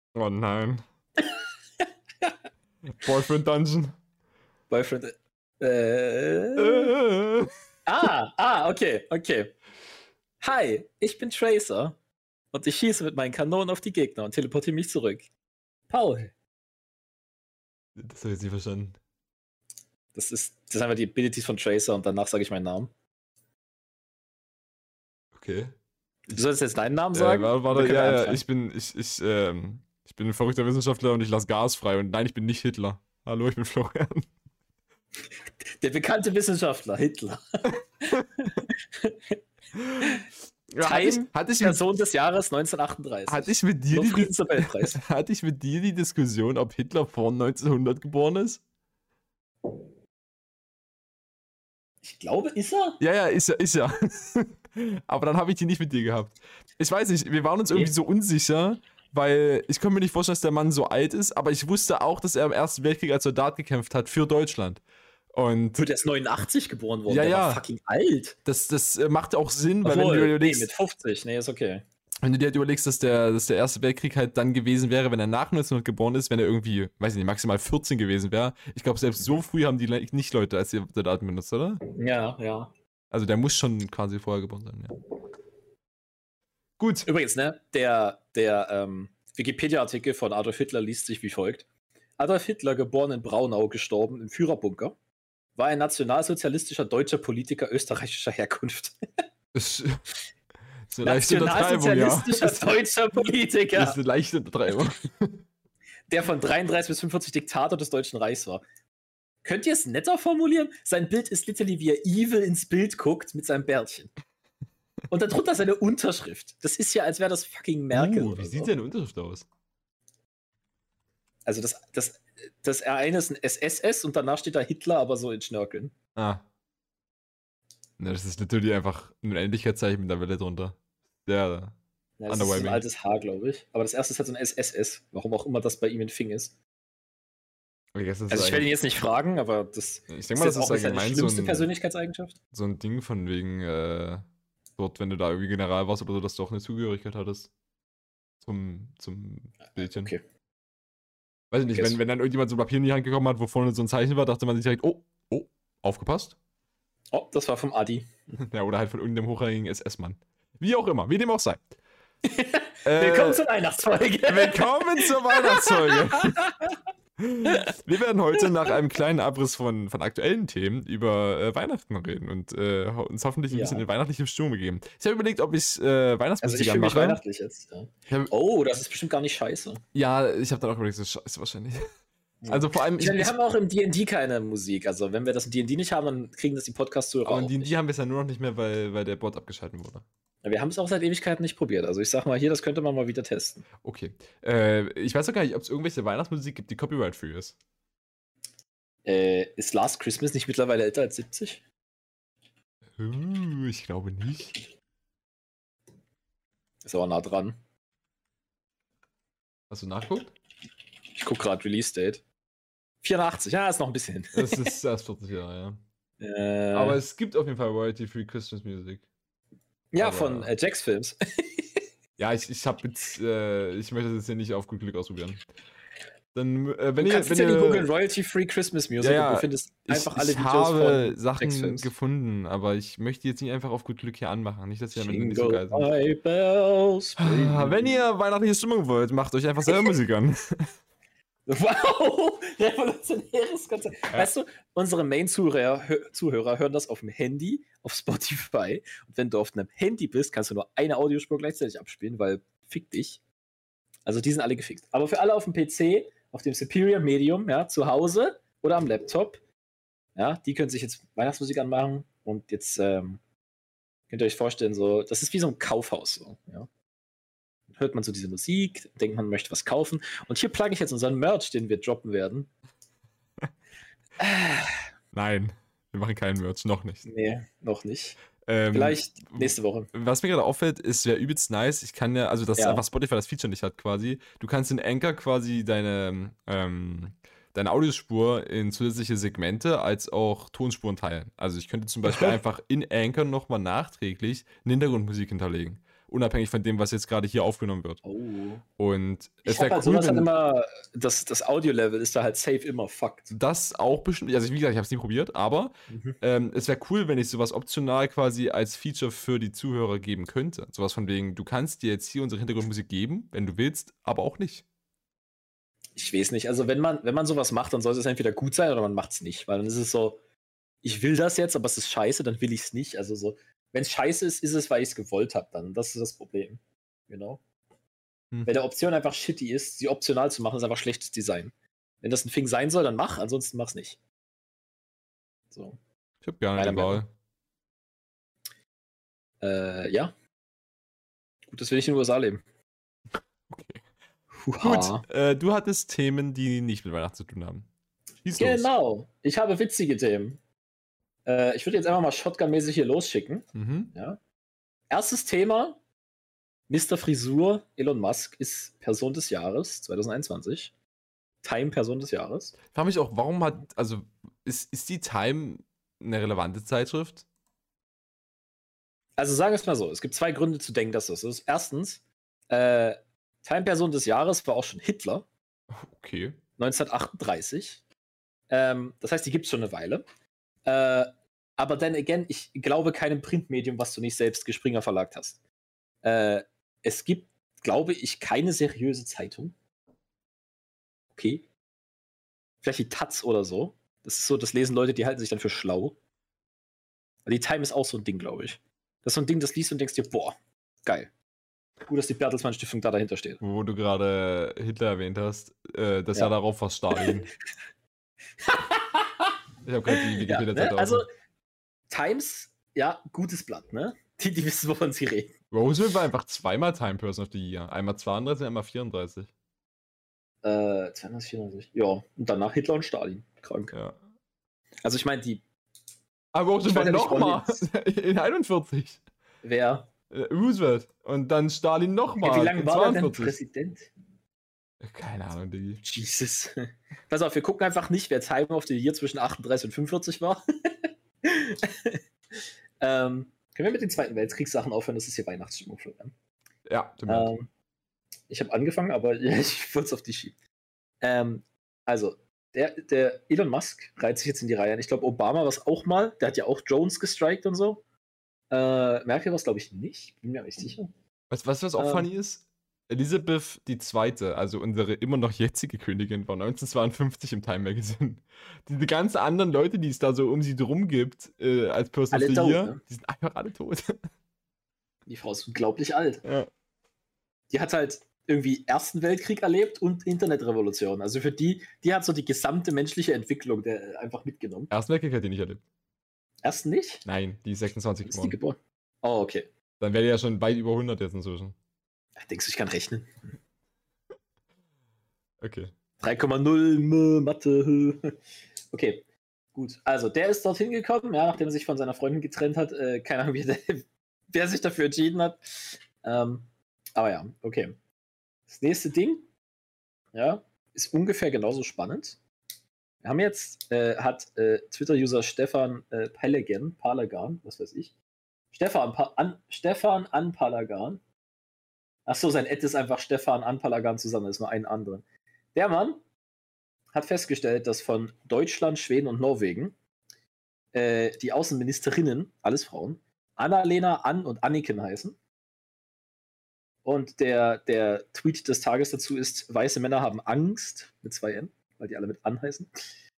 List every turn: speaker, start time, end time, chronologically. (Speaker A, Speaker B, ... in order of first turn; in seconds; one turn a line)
Speaker A: 0.1-0.8
Speaker A: 3.0-3.9
Speaker B: 4.7-6.9
Speaker A: 6.6-7.5
Speaker B: 7.9-9.5
Speaker B: 10.4-12.0
Speaker B: 12.5-15.3
Speaker B: 15.9-16.3
Speaker A: 18.0-19.0
Speaker B: 20.1-22.9
Speaker A: 25.3-25.8
Speaker B: 26.3-28.4
Speaker A: 27.1-34.3
Speaker B: 35.8-39.4
Speaker A: 39.8-41.8
Speaker B: 40.0-40.3
Speaker B: 40.8-45.0
Speaker A: 43.3-48.6
Speaker B: 52.0-53.0
Speaker A: 53.0-64.8
Speaker A: 65.3-65.9
Speaker B: 65.8-68.4
Speaker A: 67.1-67.6
Speaker A: 68.5-70.7
Speaker B: 69.8-71.8
Speaker A: 72.2-81.8
Speaker B: 82.0-82.7
Speaker A: 83.1-85.0
Speaker A: 86.8-87.1
Speaker B: 87.1-91.7
Speaker B: 92.2-95.0
Speaker B: 95.6-99.0
Speaker A: 99.5-100.0
Speaker A: 100.9-102.8
Speaker B: 101.0-104.0
Speaker A: 103.7-105.4
Speaker B: 106.1-108.6
Speaker B: 109.4-114.1
Speaker B: 115.1-118.7
Speaker A: 117.9-119.5
Speaker B: 121.5-125.9
Speaker A: 126.2-126.5
Speaker A: 128.0-131.8
Speaker B: 132.2-136.5
Speaker A: 132.3-132.8
Speaker A: 137.9-138.7
Speaker B: 138.3-142.3
Speaker A: 140.1-141.7
Speaker A: 142.5-144.3
Speaker A: 144.8-147.5
Speaker A: 148.4-150.1
Speaker B: 149.7-150.2
Speaker A: 151.5-156.4
Speaker B: 151.7-152.0
Speaker B: 157.1-158.1
Speaker A: 158.4-161.6
Speaker B: 162.2-166.8
Speaker A: 162.8-163.4
Speaker A: 164.3-166.4
Speaker A: 167.2-177.2
Speaker B: 167.5-167.8
Speaker B: 173.5-173.8
Speaker B: 176.4-179.8
Speaker A: 179.9-181.8
Speaker B: 182.4-187.7
Speaker A: 182.5-183.3
Speaker A: 187.3-190.1
Speaker B: 190.4-193.7
Speaker A: 193.8-197.6
Speaker B: 199.1-201.6
Speaker A: 203.0-204.6
Speaker B: 206.8-207.6
Speaker A: 209.7-210.3
Speaker B: 211.2-212.2
Speaker B: 213.0-214.7
Speaker A: 214.3-215.8
Speaker B: 216.2-217.0
Speaker A: 216.7-219.1
Speaker B: 219.9-221.7
Speaker A: 220.0-220.5
Speaker A: 222.2-225.4
Speaker A: 226.3-227.9
Speaker B: 227.0-231.9
Speaker A: 229.0-235.9
Speaker B: 234.9-238.0
Speaker A: 237.2-240.7
Speaker B: 241.5-253.2
Speaker B: 254.1-259.4
Speaker B: 260.2-263.2
Speaker B: 264.1-266.7
Speaker B: 267.7-272.5
Speaker B: 274.2-274.8
Speaker A: 275.1-277.1
Speaker B: 277.1-278.2
Speaker A: 278.5-298.0
Speaker B: 278.7-279.9
Speaker B: 282.6-282.8
Speaker B: 292.0-292.4
Speaker B: 298.0-298.6
Speaker A: 298.8-300.3
Speaker B: 299.5-303.4
Speaker A: 303.3-314.6
Speaker B: 305.9-306.2
Speaker B: 316.0-320.2
Speaker B: 320.8-327.4
Speaker B: 328.5-334.0
Speaker B: 335.5-335.8
Speaker A: 336.2-337.1
Speaker B: 336.6-337.0
Speaker B: 339.4-340.1
Speaker B: 341.5-342.4
Speaker A: 343.5-343.8
Speaker B: 344.4-345.0
Speaker A: 344.6-347.7
Speaker A: 348.2-348.7
Speaker B: 348.4-350.4
Speaker B: 351.3-354.2
Speaker A: 353.6-353.9
Speaker B: 354.9-355.8
Speaker B: 356.7-360.7
Speaker B: 361.4-362.6
Speaker A: 362.7-367.2
Speaker B: 369.2-375.3
Speaker A: 375.7-376.4
Speaker B: 376.6-377.8
Speaker B: 378.5-380.0
Speaker B: 380.7-385.4
Speaker B: 386.0-389.6
Speaker B: 391.2-391.4
Speaker B: 392.6-396.0
Speaker B: 397.3-401.1
Speaker B: 401.9-403.4
Speaker A: 403.4-407.3
Speaker B: 408.4-409.3
Speaker A: 409.6-411.1
Speaker B: 409.9-411.1
Speaker B: 411.9-415.3
Speaker A: 415.5-419.3
Speaker B: 420.4-423.8
Speaker A: 423.7-424.0
Speaker B: 424.8-425.4
Speaker A: 426.3-429.0
Speaker B: 426.7-427.6
Speaker B: 429.4-429.9
Speaker A: 430.1-433.3
Speaker B: 432.2-433.9
Speaker A: 434.8-435.8
Speaker B: 435.8-442.0
Speaker B: 442.8-446.1
Speaker A: 446.7-447.3
Speaker B: 447.1-447.5
Speaker B: 448.3-450.4
Speaker B: 451.0-457.8
Speaker B: 458.5-460.9
Speaker A: 461.3-474.0
Speaker B: 461.8-462.1
Speaker B: 472.1-472.8
Speaker B: 475.1-476.2
Speaker B: 477.5-484.7
Speaker A: 484.7-485.6
Speaker B: 486.4-487.1
Speaker A: 487.1-488.4
Speaker B: 488.1-489.5
Speaker A: 489.8-491.6
Speaker B: 492.2-493.1
Speaker A: 495.4-495.7
Speaker B: 496.0-498.1
Speaker B: 498.7-499.0
Speaker B: 499.6-507.8
Speaker B: 508.5-509.3
Speaker B: 510.1-512.2
Speaker B: 513.0-517.9
Speaker B: 518.5-521.0
Speaker B: 522.1-526.0
Speaker B: 526.9-529.8
Speaker B: 530.7-535.2
Speaker B: 536.9-542.9